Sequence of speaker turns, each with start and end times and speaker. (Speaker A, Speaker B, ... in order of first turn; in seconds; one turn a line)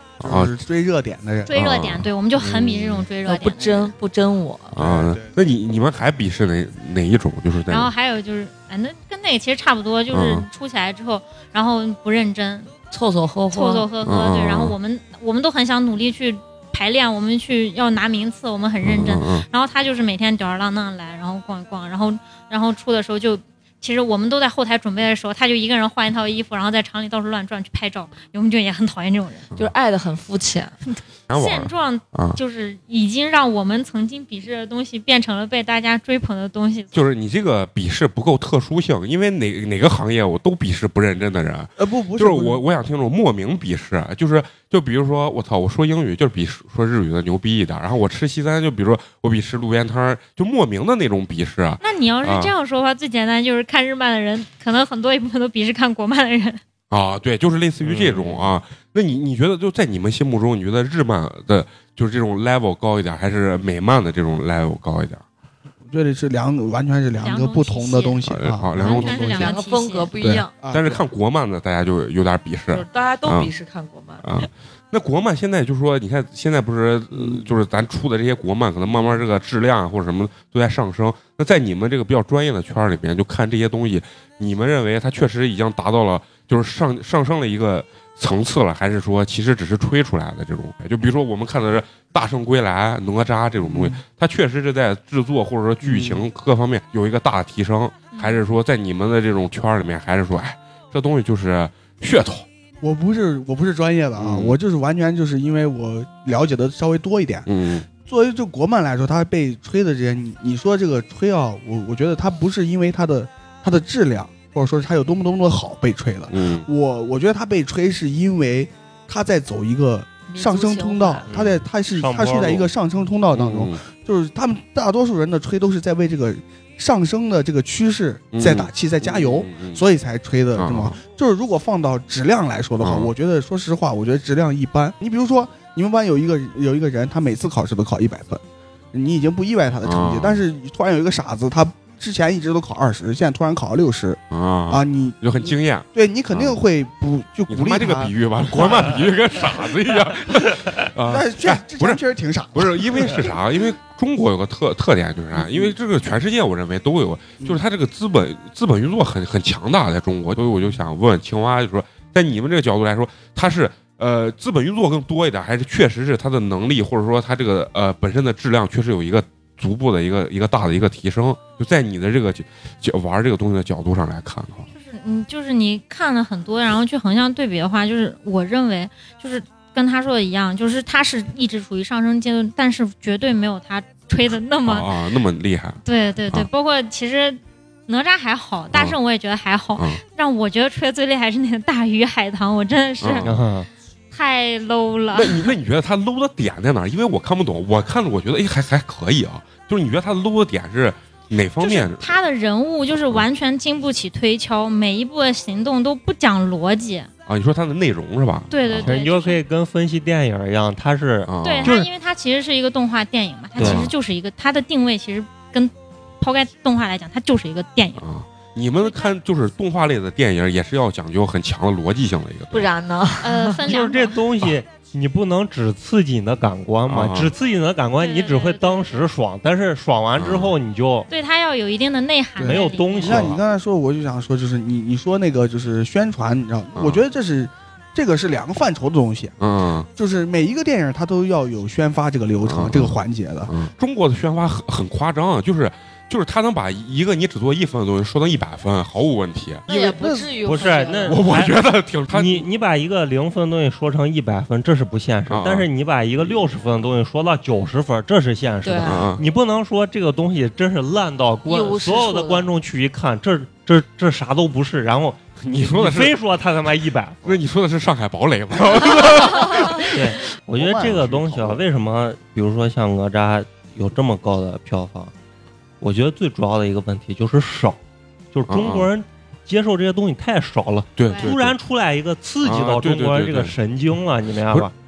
Speaker A: 0.2-0.5
Speaker B: 0.2-1.5
Speaker C: 1.5-3.9
Speaker A: 1.5-3.0
Speaker D: 3.2-4.7
Speaker A: 4.7-7.9
Speaker B: 4.8-5.3
Speaker C: 7.7-12.7
Speaker A: 10.1-10.4
Speaker D: 12.9-13.9
Speaker C: 13.5-29.5
Speaker A: 14.0-14.7
Speaker A: 18.8-19.4
Speaker D: 29.6-30.8
Speaker C: 30.9-36.9
Speaker A: 31.3-32.4
Speaker A: 36.9-52.5
Speaker B: 41.8-42.6
Speaker C: 51.8-56.6
Speaker A: 56.9-65.2
Speaker E: 57.8-58.5
Speaker B: 65.9-69.5
Speaker C: 67.2-68.2
Speaker A: 68.2-69.5
Speaker C: 68.8-70.1
Speaker D: 69.2-70.5
Speaker A: 70.2-73.5
Speaker B: 70.2-71.0
Speaker D: 72.7-74.2
Speaker A: 74.2-102.5
Speaker B: 77.1-77.5
Speaker B: 93.6-94.0
Speaker B: 95.8-96.2
Speaker C: 98.1-98.4
Speaker B: 102.8-107.5
Speaker A: 104.2-104.6
Speaker A: 107.5-107.9
Speaker B: 108.0-138.4
Speaker A: 116.3-116.7
Speaker D: 120.3-121.3
Speaker E: 121.3-122.6
Speaker A: 123.3-123.8
Speaker A: 128.3-129.8
Speaker A: 130.6-130.9
Speaker A: 132.8-133.1
Speaker B: 138.9-149.0
Speaker A: 139.8-140.4
Speaker A: 144.3-146.6
Speaker A: 147.5-152.0
Speaker B: 151.0-153.4
Speaker A: 152.5-174.7
Speaker B: 155.3-155.7
Speaker C: 174.7-184.9
Speaker A: 184.6-186.5
Speaker C: 185.8-193.3
Speaker A: 193.0-193.3
Speaker E: 193.2-193.7
Speaker C: 194.1-195.5
Speaker A: 195.1-202.1
Speaker C: 201.6-207.1
Speaker A: 207.3-208.9
Speaker C: 208.5-209.4
Speaker E: 208.8-211.9
Speaker A: 211.2-211.8
Speaker C: 211.4-218.0
Speaker E: 213.6-213.9
Speaker A: 213.6-213.9
Speaker A: 218.0-222.7
Speaker C: 218.8-219.1
Speaker D: 222.5-223.6
Speaker C: 223.2-224.2
Speaker E: 223.7-231.1
Speaker A: 226.9-227.3
Speaker C: 228.0-229.0
Speaker A: 230.2-230.5
Speaker C: 231.1-233.3
Speaker B: 232.4-239.3
Speaker E: 232.4-233.4
Speaker A: 236.7-237.0
Speaker A: 239.4-239.9
Speaker B: 239.9-243.5
Speaker A: 242.4-243.0
Speaker A: 243.5-249.7
Speaker D: 249.7-251.3
Speaker B: 249.7-250.4
Speaker E: 250.4-251.6
Speaker A: 251.0-252.4
Speaker E: 252.1-267.4
Speaker A: 255.3-255.7
Speaker D: 258.6-259.1
Speaker A: 258.8-259.2
Speaker D: 261.4-262.5
Speaker A: 265.4-266.1
Speaker A: 267.2-270.3
Speaker E: 269.9-275.1
Speaker B: 270.6-271.4
Speaker A: 270.8-271.5
Speaker E: 275.8-277.8
Speaker E: 278.3-284.7
Speaker A: 278.5-278.9
Speaker A: 281.0-281.6
Speaker C: 281.1-281.3
Speaker A: 282.4-283.5